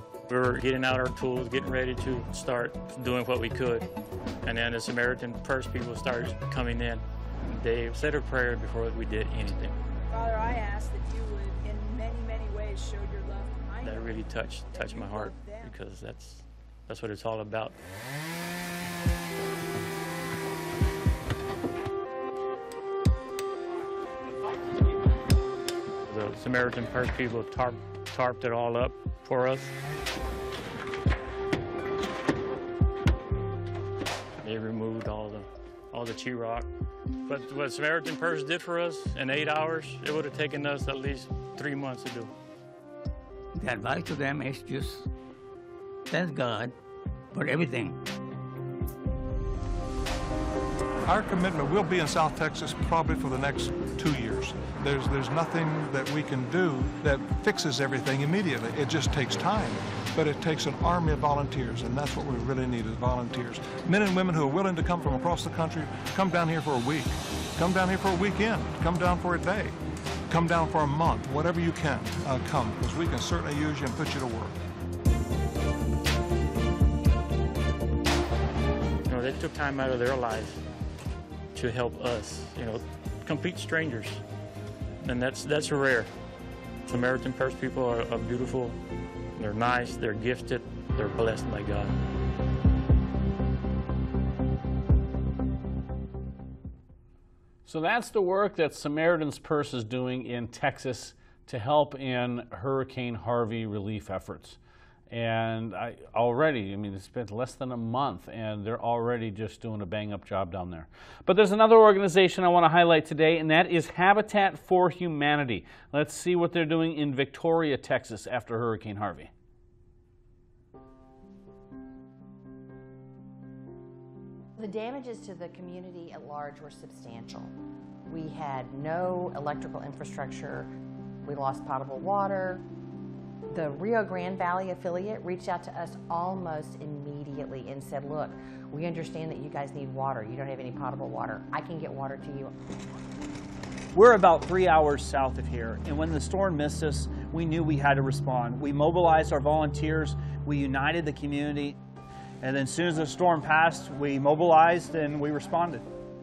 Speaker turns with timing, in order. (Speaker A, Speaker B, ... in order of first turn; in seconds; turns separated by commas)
Speaker A: 0.3-3.9, Speaker A: 4.4-9.8, Speaker B: 10.1-14.1, Speaker A: 13.8-17.7, Speaker B: 14.7-15.7, Speaker A: 26.1-29.7, Speaker A: 34.4-36.7, Speaker A: 37.3-42.3, Speaker C: 43.5-45.1, Speaker C: 46.1-46.7, Speaker C: 47.3-48.0, Speaker D: 51.0-69.7, Speaker D: 70.3-74.6, Speaker A: 79.0-80.6, Speaker A: 81.5-84.2, Speaker A: 85.0-86.1, Speaker A: 86.8-88.8, Speaker A: 89.3-92.0, Speaker E: 97.7-104.6, Speaker E: 105.1-119.3, Speaker F: 124.6-127.5, Speaker F: 128.1-130.7, Speaker F: 131.2-132.6, Speaker F: 133.5-142.5, Speaker G: 143.9-151.8, Speaker G: 152.4-155.8